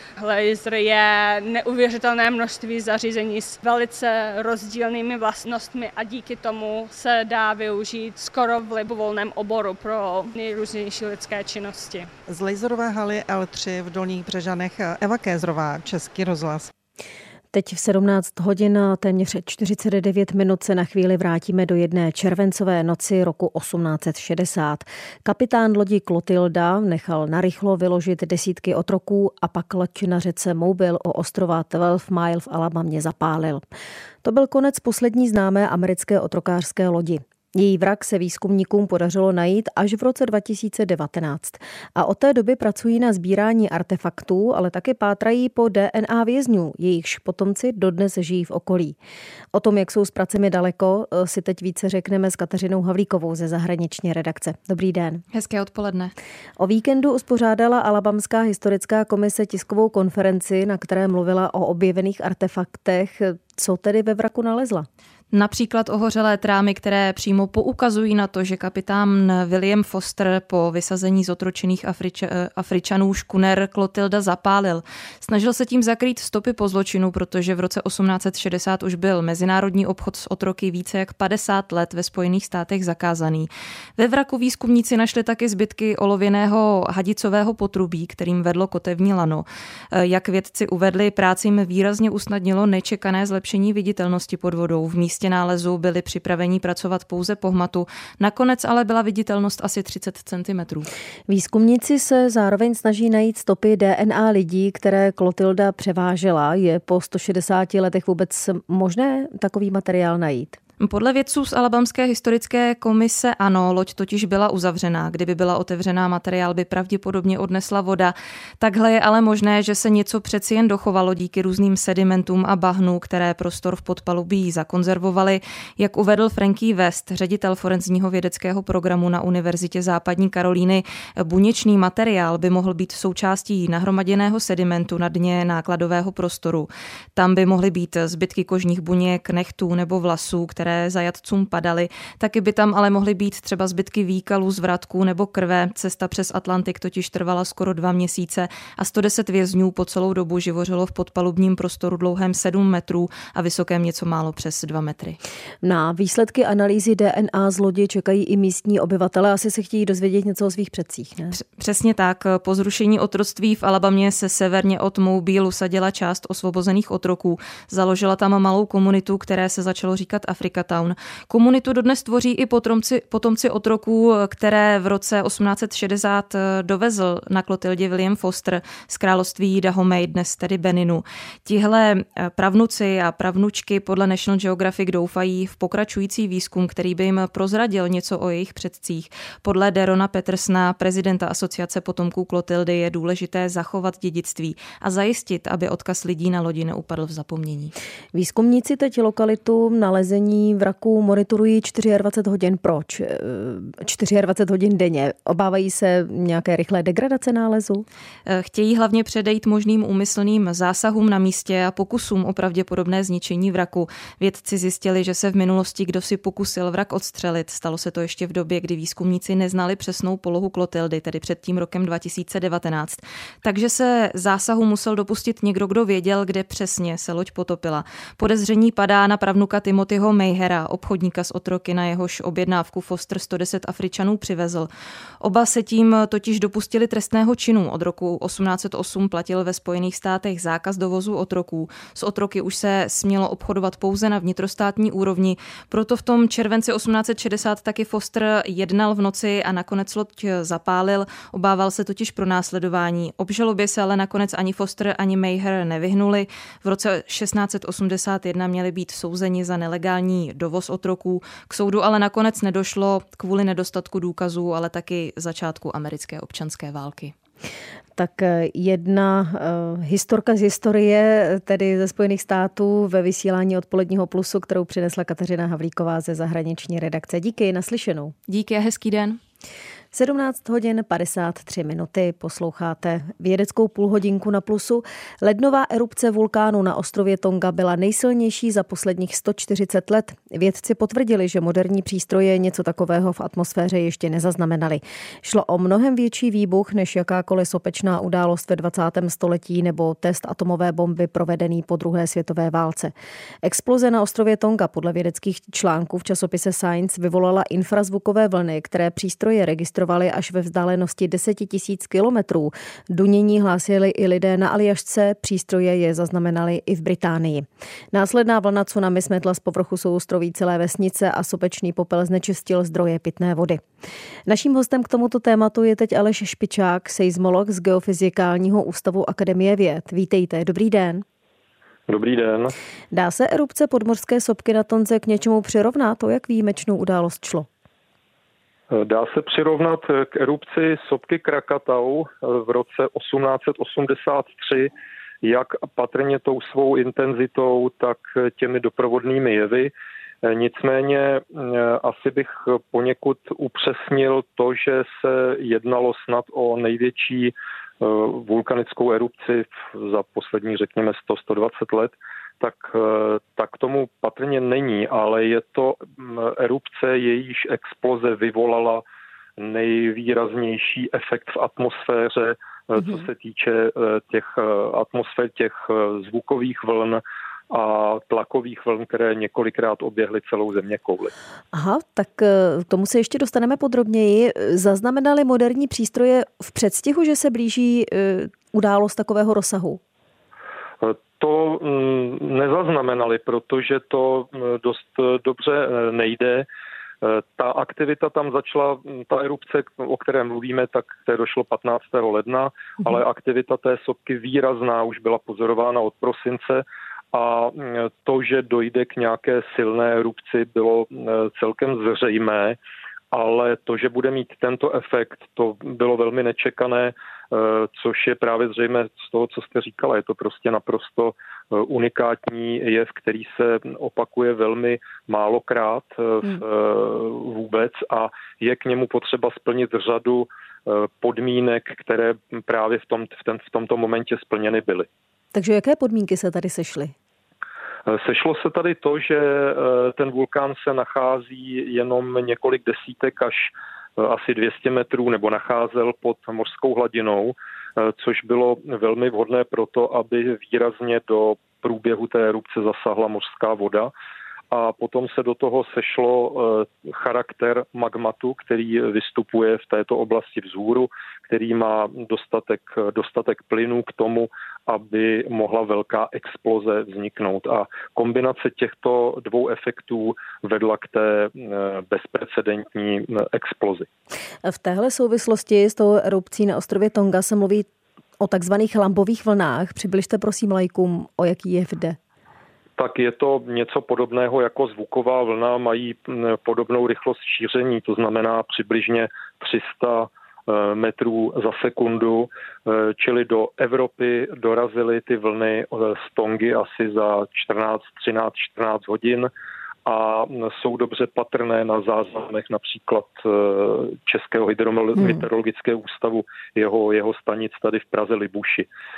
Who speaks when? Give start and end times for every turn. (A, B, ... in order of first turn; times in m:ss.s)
0:00.2-0:12.1 A
0:12.3-0:16.7 B
0:17.5-0:33.7 C
0:34.2-0:49.0 C
0:49.5-0:55.2 C
0:55.3-0:56.1 D
0:56.6-1:04.9 C
1:05.3-1:40.9 D
1:41.3-1:50.6 C
1:50.8-2:35.2 D
2:35.6-2:41.3 C
2:41.3-3:17.7 D
3:18.1-3:27.8 C
3:28.3-3:54.7 D
3:55.2-4:27.2 D
4:28.0-4:38.1 C
4:38.3-4:39.2 D
4:39.9-5:23.6 C
5:24.3-5:31.0 C
5:31.9-5:32.5 E
5:32.9-5:37.5 C
5:38.7-5:44.7 E
5:45.2-5:49.7 E
5:50.2-6:08.8 E
6:09.4-6:21.1 E
6:21.5-6:29.8 C
6:30.8-6:36.5 E
6:37.0-6:52.6 E
6:53.1-7:14.9 E
7:15.3-7:16.9 C
7:17.9-7:33.9 E
7:34.5-7:53.9 E
7:54.4-7:57.7 C
7:58.2-8:02.0 C
8:02.8-8:19.3 E
8:19.9-8:28.7 E